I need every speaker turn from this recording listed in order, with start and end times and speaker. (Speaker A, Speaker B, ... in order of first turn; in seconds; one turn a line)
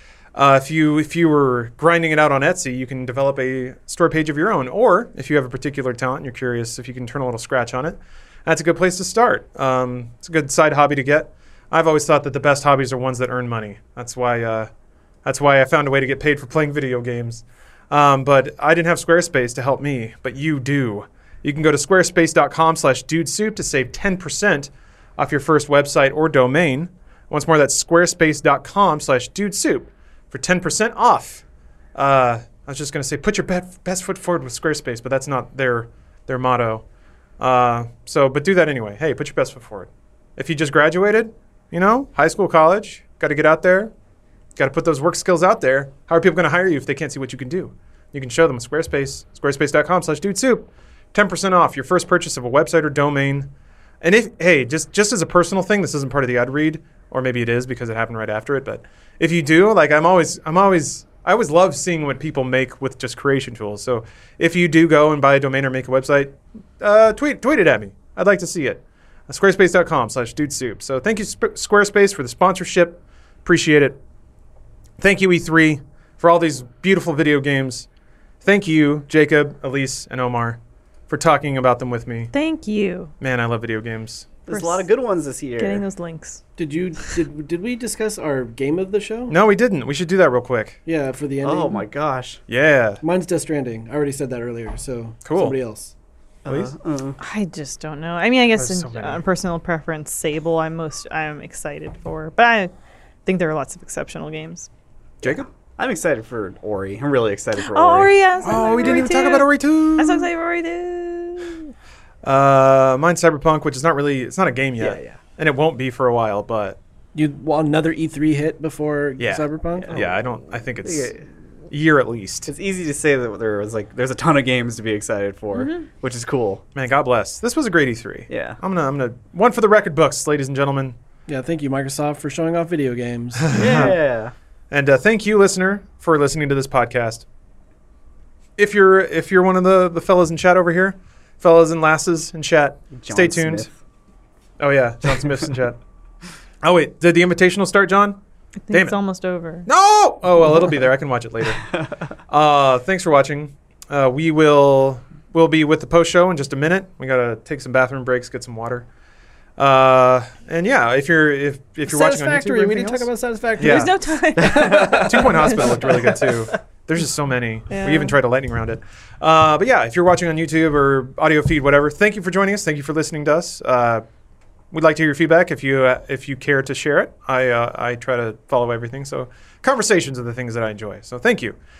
Speaker A: 0.3-14.7
Speaker A: 15.2-31.4
Speaker A: 31.9-36.8
Speaker A: 37.4-43.9
Speaker A: 44.6-53.5
Speaker A: 54.0-74.0
Speaker A: 75.0-77.9
Speaker A: 78.4-82.3
Speaker B: 82.3-83.1
Speaker A: 83.2-84.3
Speaker C: 84.5-85.8
Speaker B: 84.5-84.9
Speaker B: 85.6-86.4
Speaker D: 86.6-89.3
Speaker A: 89.3-90.8
Speaker D: 90.8-91.8
Speaker C: 91.4-92.4
Speaker A: 92.5-93.0
Speaker D: 93.0-95.9
Speaker A: 95.2-95.6
Speaker C: 96.5-97.2
Speaker A: 96.5-96.7
Speaker B: 97.2-102.7
Speaker A: 98.5-99.2
Speaker B: 103.3-104.7
Speaker A: 105.2-105.5
Speaker C: 105.2-109.0
Speaker B: 107.6-111.7
Speaker A: 108.4-110.3
Speaker A: 112.2-116.8
Speaker C: 114.8-115.2
Speaker D: 117.1-120.1
Speaker A: 119.2-121.2
Speaker C: 120.8-121.2
Speaker A: 121.7-122.5
Speaker C: 122.5-126.6
Speaker B: 125.5-125.9
Speaker A: 126.8-131.0
Speaker C: 128.3-128.6
Speaker D: 131.3-133.9
Speaker A: 133.4-134.0
Speaker C: 133.5-134.3
Speaker A: 134.7-137.2
Speaker A: 138.6-143.7
Speaker C: 142.9-143.7
Speaker A: 144.6-145.8
Speaker A: 146.6-148.2
Speaker B: 148.7-149.7
Speaker A: 148.7-149.0
Speaker A: 149.7-151.7
Speaker A: 152.3-158.9
Speaker A: 159.6-163.9
Speaker D: 161.9-166.1
Speaker B: 163.6-165.9
Speaker A: 164.5-174.0
Speaker C: 164.5-165.0
Speaker B: 167.7-168.2
Speaker A: 174.7-181.6